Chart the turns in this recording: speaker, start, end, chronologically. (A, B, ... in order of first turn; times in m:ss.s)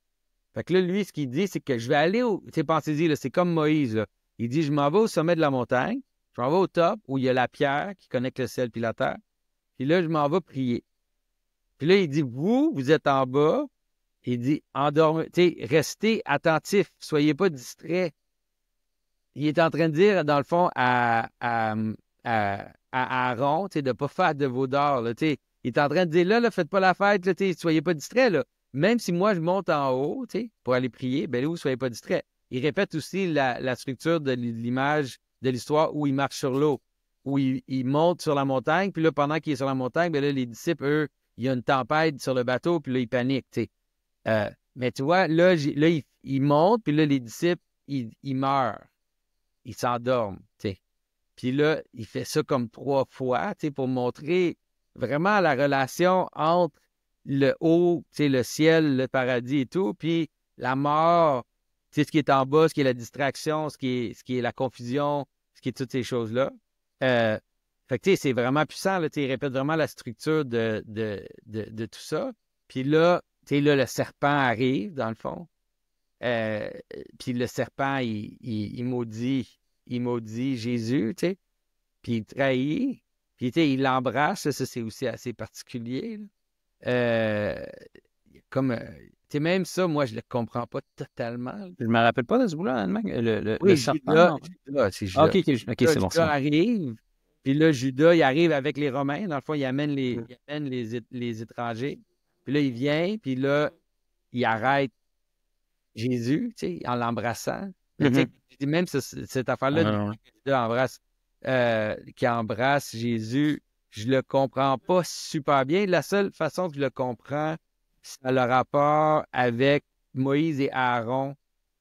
0:00.5-0:09.2 A
0:09.8-0:10.8 A
0:11.8-0:13.7 A
0:14.2-0:18.1 A
0:19.3-0:43.7 A
0:44.2-0:48.9 A
0:49.6-0:50.8 A
0:51.4-1:15.5 A
1:16.2-1:21.4 A
1:22.0-1:26.3 A
1:26.8-1:27.7 A
1:28.5-1:31.8 A
1:31.8-1:34.5 B
1:33.6-1:43.7 A
1:35.1-1:36.3 B
1:44.3-1:44.9 A
1:45.9-2:01.4 A
1:48.0-1:48.3 B
1:49.7-1:50.2 B